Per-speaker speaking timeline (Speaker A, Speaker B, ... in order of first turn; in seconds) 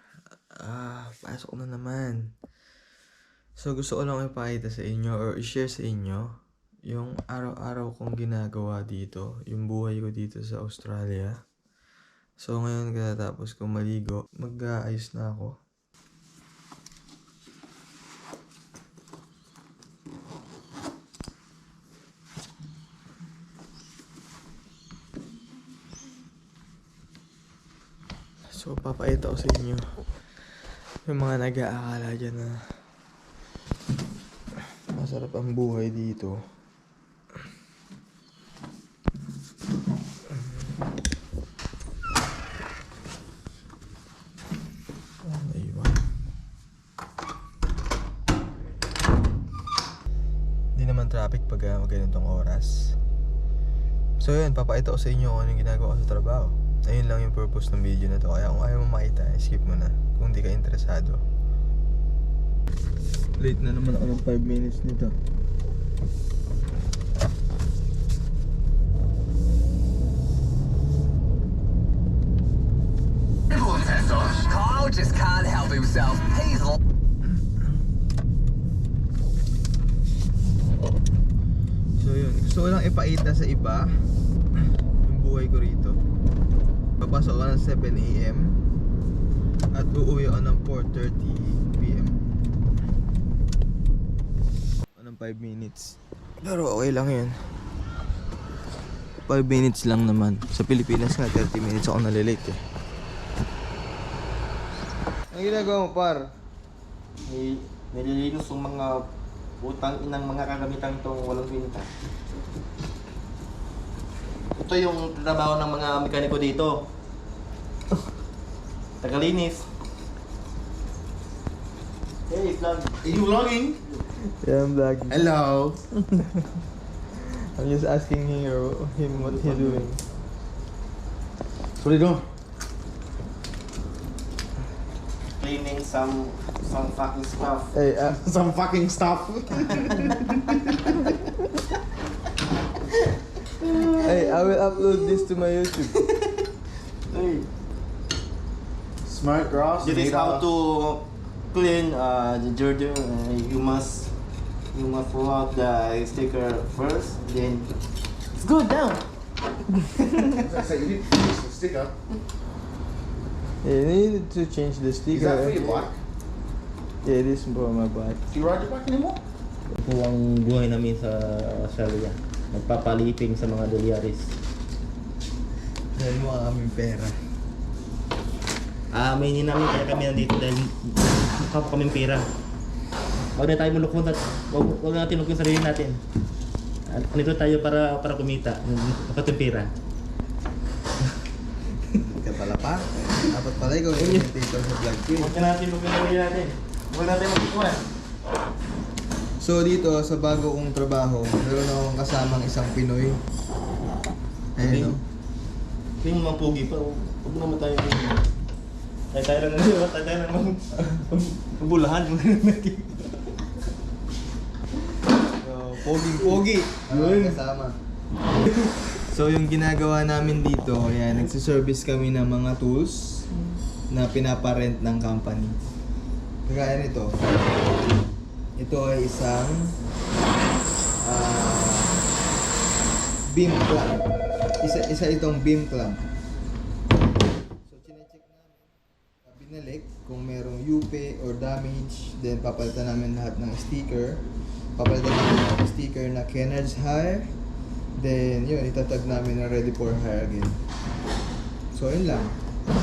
Speaker A: 0.6-2.3, 3.6-6.3, 6.9-11.3, 12.4-15.6, 28.5-29.9, 31.1-32.6, 34.9-36.4, 45.2-46.0, 50.8-53.0, 54.2-61.2, 63.4-65.2, 82.0-83.9, 85.0-86.0, 87.0-88.6, 89.7-92.3, 95.0-97.4, 99.3-102.6, 105.3-106.3, 124.4-125.2, 127.2-130.0, 137.7-138.2, 144.0-146.0, 163.6-165.7, 167.1-168.2, 176.0-177.2, 192.1-195.3, 199.4-203.2, 204.6-205.0, 215.4-217.8, 219.0-223.3, 223.9-225.6, 226.5-227.2, 228.6-229.8, 231.0-232.0, 233.3-234.1, 234.6-236.0, 237.7-238.7, 239.2-247.3, 248.0-250.6, 251.7-252.4
Speaker B: 73.5-76.8
Speaker C: 107.3-109.1, 109.6-111.9, 114.6-116.9, 119.0-119.7, 122.3-123.0, 129.1-129.9, 135.4-137.7, 143.6-144.4, 146.0-146.3, 147.1-147.5, 149.8-154.1, 154.7-157.7, 158.3-159.1, 169.7-174.3, 178.9-182.3, 183.3-186.0, 186.9-189.7, 194.0-194.3, 195.1-197.8, 204.6-205.0, 206.0-208.2, 209.1-213.3, 216.8-217.4
Speaker D: 123.0-123.8, 125.1-125.8, 131.8-132.3, 138.2-140.9, 149.0-150.5, 160.3-161.9, 165.1-166.0, 168.3-169.2